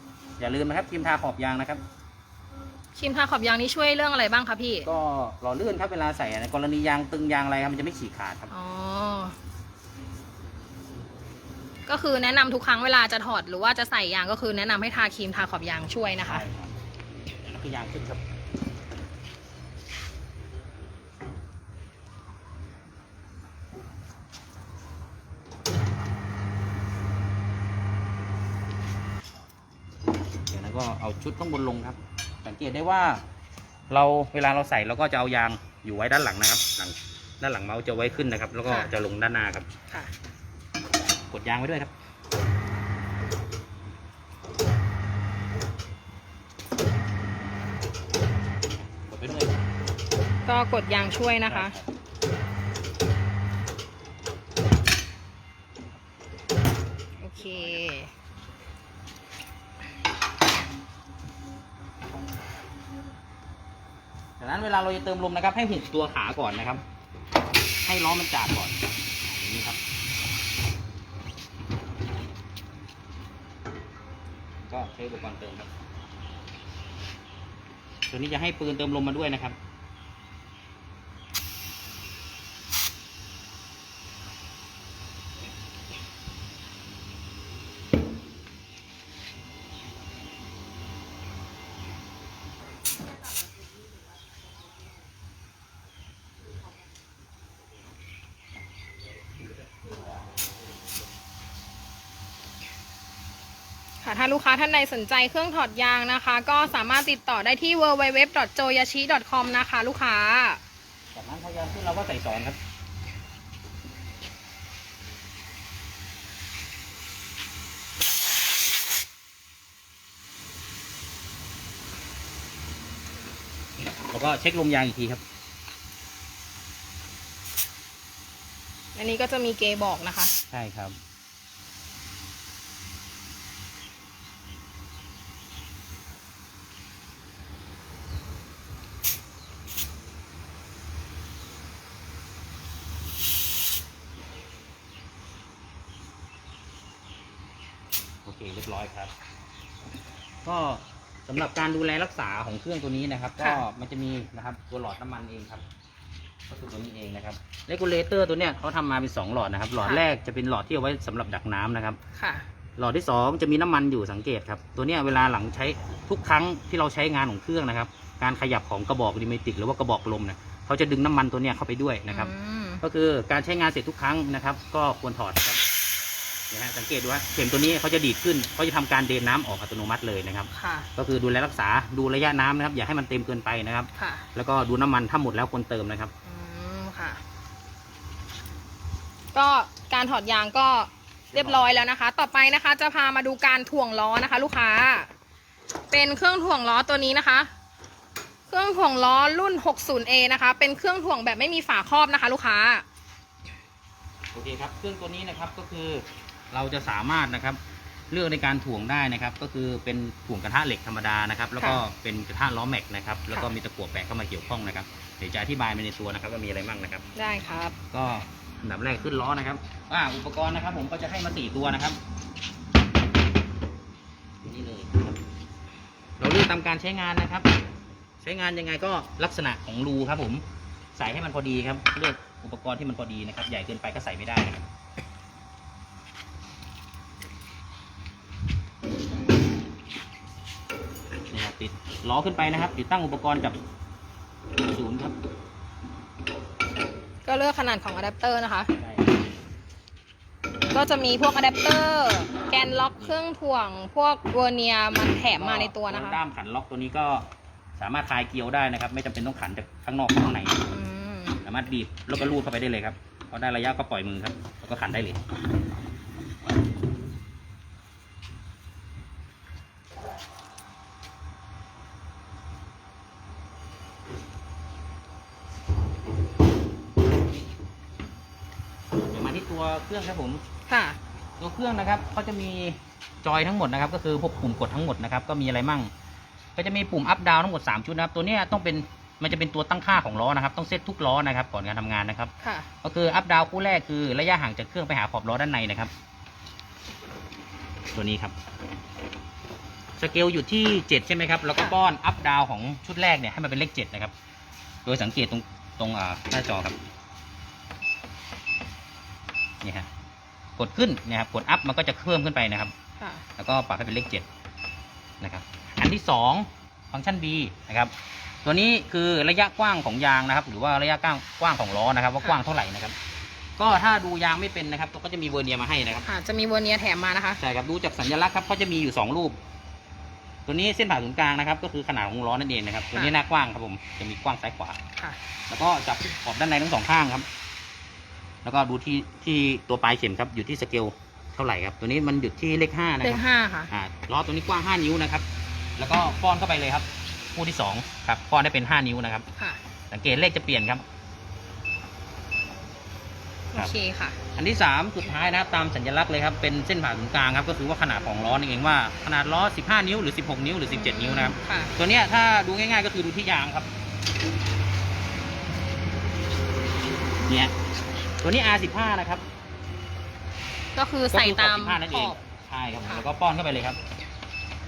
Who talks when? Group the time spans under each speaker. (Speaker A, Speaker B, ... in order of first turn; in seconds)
Speaker A: 0.4-1.8, 4.9-8.5, 16.2-16.7, 17.4-18.2, 30.5-33.2, 33.9-39.7, 41.3-41.9, 48.9-49.6, 51.5-51.9, 57.5-57.8, 64.4-66.8, 67.8-69.8, 74.7-75.7, 78.1-79.6, 111.1-112.6, 124.1-125.2, 130.5-131.0, 148.2-149.1, 150.4-155.6, 156.5-162.0, 162.8-175.6, 176.5-186.1, 191.3-191.8, 204.3-207.6, 208.1-217.1, 217.9-222.0, 224.4-225.1, 226.2-227.5, 228.2-230.4, 231.0-234.6, 241.3-243.6, 244.7-245.2, 248.8-249.1, 255.3-260.6, 261.4-265.2, 279.1-280.4, 281.4-285.9, 286.6-292.3, 292.8-295.9, 297.9-298.3, 300.0-304.1, 304.9-306.8, 309.6-309.9, 310.6-312.7, 313.4-314.3, 315.2-317.9, 318.4-323.0, 323.6-326.1, 327.4-329.4, 330.5-334.8, 335.5-337.3, 338.4-345.2, 345.8-349.2, 349.9-350.8, 354.4-363.7, 367.3-367.5, 368.2-369.2, 371.1-373.8
Speaker B: 3.0-4.9, 8.5-9.3, 11.9-16.4, 38.7-38.9, 50.5-51.7, 57.2-58.1, 104.0-110.6, 129.0-130.3, 153.4-153.6, 162.2-162.5, 172.1-172.8, 180.5-180.9, 184.0-184.3, 186.2-187.2, 189.3-195.1, 195.9-197.5, 198.5-202.8, 217.2-217.8, 247.2-248.7, 250.7-256.2, 260.7-261.4, 280.7-281.0, 292.4-292.7, 313.0-313.2, 326.0-327.4, 343.0-343.7, 353.5-354.2, 360.7-361.7, 370.8-372.2